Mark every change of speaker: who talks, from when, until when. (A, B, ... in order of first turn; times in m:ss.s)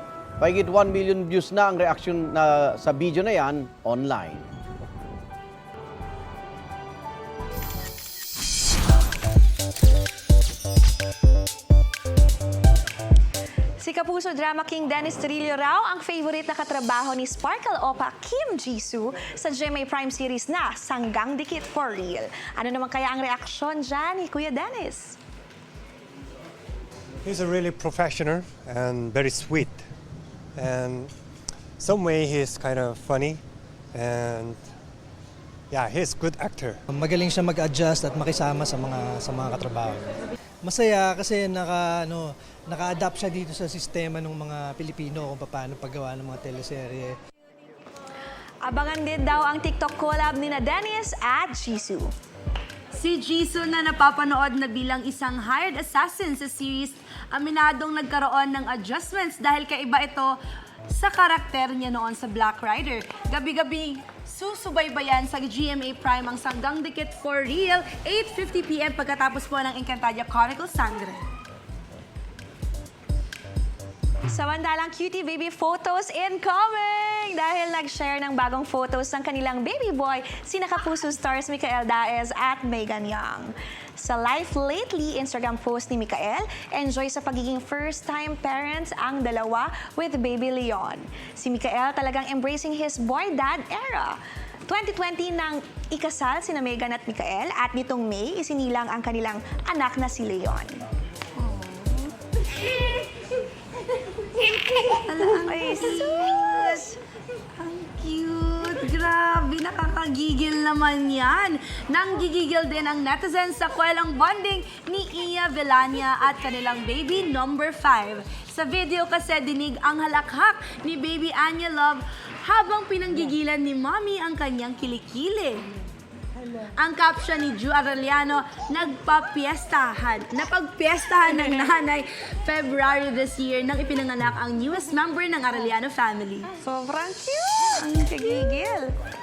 0:00.4-0:04.5 A
0:13.8-0:25.2 B
0:27.2-0:29.8 C
0:30.6-0:31.1 C
0:31.8-0:33.4 C
0:33.9-0:34.6 C
0:35.7-0:36.8 C
0:36.9-0:47.2 D
0:48.6-0:52.1 B
0:52.9-1:00.4 E
1:00.9-1:11.2 E
1:14.3-1:40.8 B
1:41.4-1:42.1 E
1:44.4-1:46.7 E
1:45.3-1:46.9 B
1:47.6-2:05.7 E
2:06.8-2:16.5 E
2:16.6-2:18.9 B